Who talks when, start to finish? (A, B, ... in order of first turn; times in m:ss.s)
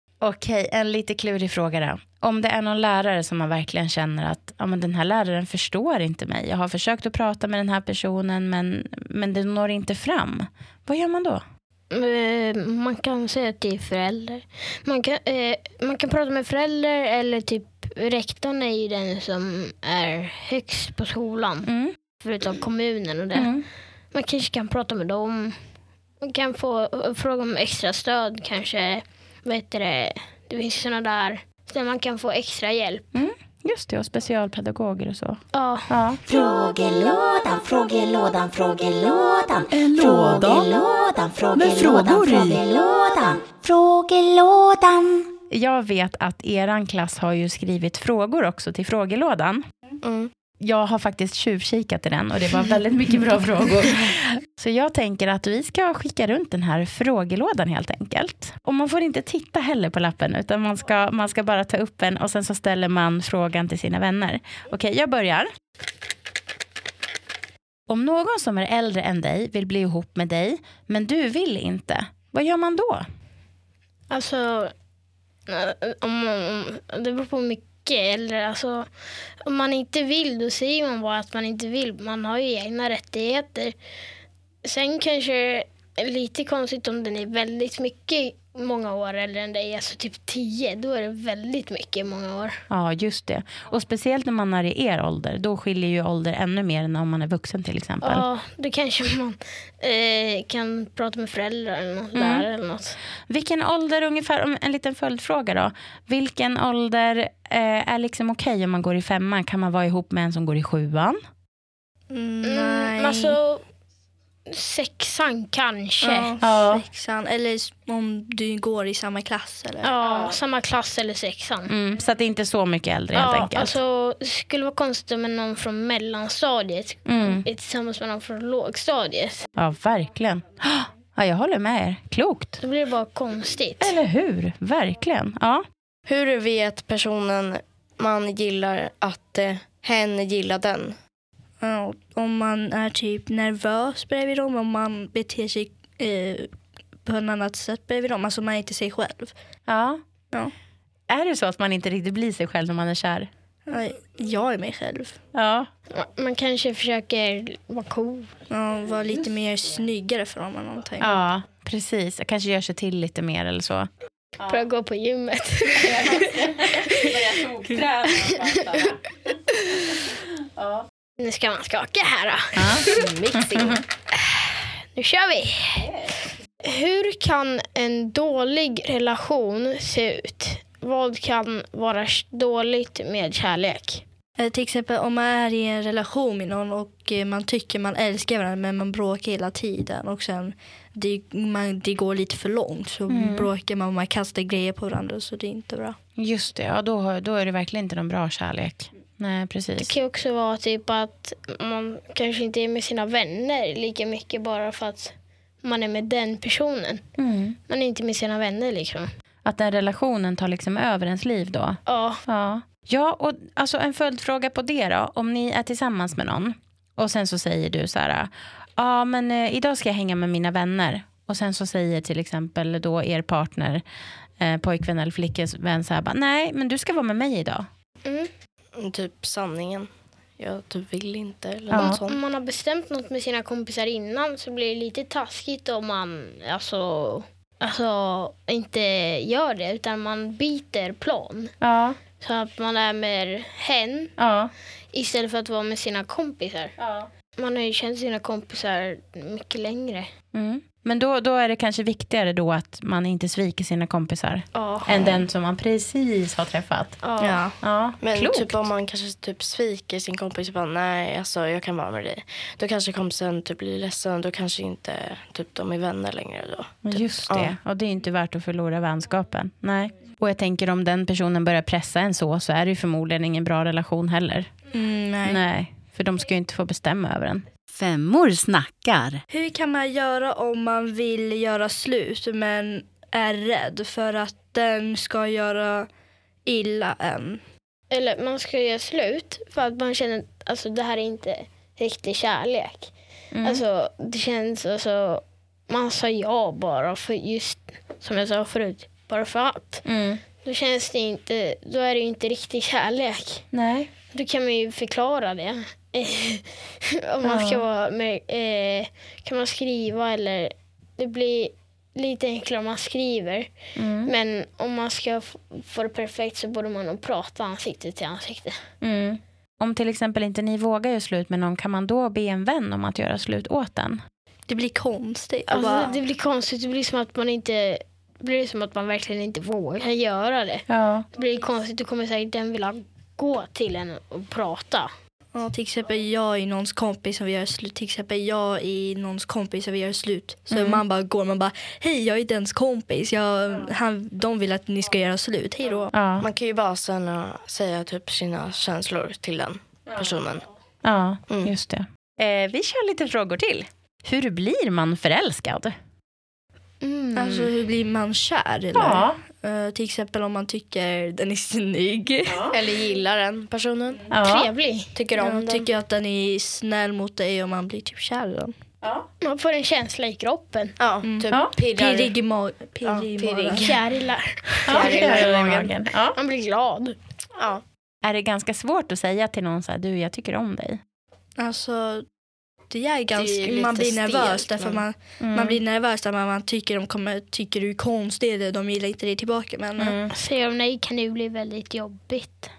0:00.2-0:11.4 A
0:11.9-0:21.7 B
0:21.7-0:21.9 A
0:22.2-0:23.5 B
0:23.4-0:23.7 A
0:24.1-0:25.6 B
0:26.2-0:33.1 B
0:33.2-0:36.2 A
0:35.5-0:35.9 B
0:36.2-0:45.3 C
0:39.7-0:40.7 A
0:41.5-0:42.6 A
0:45.5-0:49.6 A
0:50.0-0:50.3 D
0:50.6-1:05.5 A
1:07.9-1:13.0 A
1:14.1-1:14.7 B
1:15.5-1:18.9 B
1:19.4-1:23.8 B
1:24.6-1:32.6 B
1:32.7-1:38.2 A
1:38.0-1:43.0 B
1:42.2-1:42.5 A
1:43.3-1:51.2 A
1:52.1-1:53.4 E
1:52.4-1:53.6 B
1:54.5-1:56.4 B
1:56.0-1:59.9 E
1:56.4-1:56.8 A
1:59.8-2:01.7 B
2:01.7-2:03.8 A
2:03.1-2:09.5 B
2:07.1-2:07.5 A
2:09.6-2:12.6 A
2:12.6-2:14.0 B
2:13.8-2:15.6 A
2:16.1-2:21.0 D
2:21.6-2:26.5 E
2:27.0-2:29.3 E
2:29.7-2:30.0 A
2:31.1-2:33.3 A
2:33.7-2:35.2 E
2:35.3-2:35.7 A
2:35.9-2:38.3 B
2:38.5-2:41.1 E
2:41.0-2:43.9 A
2:44.4-2:44.6 A
2:44.5-2:46.3 B
2:45.8-2:49.0 A
2:50.6-2:50.9 A
2:51.2-2:53.0 B
2:52.5-2:53.8 A
2:52.9-2:53.8 D
2:54.1-2:55.9 B
2:55.8-2:56.1 A
2:56.6-3:04.0 B
3:04.4-3:16.0 E
3:13.1-3:13.5 A
3:16.2-3:19.9 A
3:19.8-3:27.0 B
3:27.2-3:27.6 A
3:27.7-3:29.1 B
3:29.4-3:43.8 A
3:31.9-3:32.2 B
3:44.4-3:47.7 A
3:48.8-3:49.9 D
3:50.4-3:52.2 D
3:51.7-3:52.0 A
3:51.8-4:01.5 B
4:01.6-4:02.0 A
4:02.2-4:04.1 B
4:04.2-4:04.5 A
4:04.9-4:06.8 B
4:06.8-4:07.1 A
4:07.3-4:10.1 B
4:10.3-4:17.0 A
4:14.6-4:15.2 B
4:17.0-4:17.5 B
4:17.2-4:17.6 E
4:17.6-4:18.6 A
4:18.0-4:27.6 D
4:26.8-4:34.5 A
4:34.7-4:35.4 E
4:35.2-4:39.2 A
4:39.3-4:45.9 E
4:46.5-4:47.4 E
4:47.9-4:52.9 B
4:53.3-4:53.6 A
4:53.4-4:59.8 B
4:59.8-5:00.2 A
5:00.4-5:03.5 B
5:03.5-5:03.9 A
5:04.1-5:13.5 B
5:07.2-5:07.6 A
5:13.8-5:14.1 A
5:14.1-5:18.6 B
5:18.8-5:24.0 A
5:24.5-5:26.0 E
5:25.5-5:34.9 B
5:30.7-5:31.1 A
5:35.3-5:45.9 E
5:40.5-5:40.8 A
5:45.9-5:46.3 A
5:46.2-5:50.5 D
5:50.8-5:55.7 A
5:56.8-5:57.5 B
5:57.2-6:02.5 E
5:58.7-5:59.2 A
6:02.3-6:02.6 A
6:02.5-6:04.1 D
6:04.1-6:04.5 A
6:04.2-6:04.9 B
6:05.0-6:05.7 D
6:05.2-6:08.5 E
6:09.2-6:10.8 B
6:10.8-6:12.1 D
6:11.0-6:13.7 E
6:12.9-6:13.8 D
6:13.6-6:15.3 B
6:14.6-6:15.8 D
6:14.7-6:16.2 A
6:16.1-6:17.0 B
6:17.4-6:17.6 D
6:18.0-6:20.8 A
6:21.4-6:22.0 E
6:22.7-6:30.0 E
6:23.1-6:24.8 D
6:25.2-6:25.6 A
6:29.8-6:30.1 A
6:30.1-6:32.5 B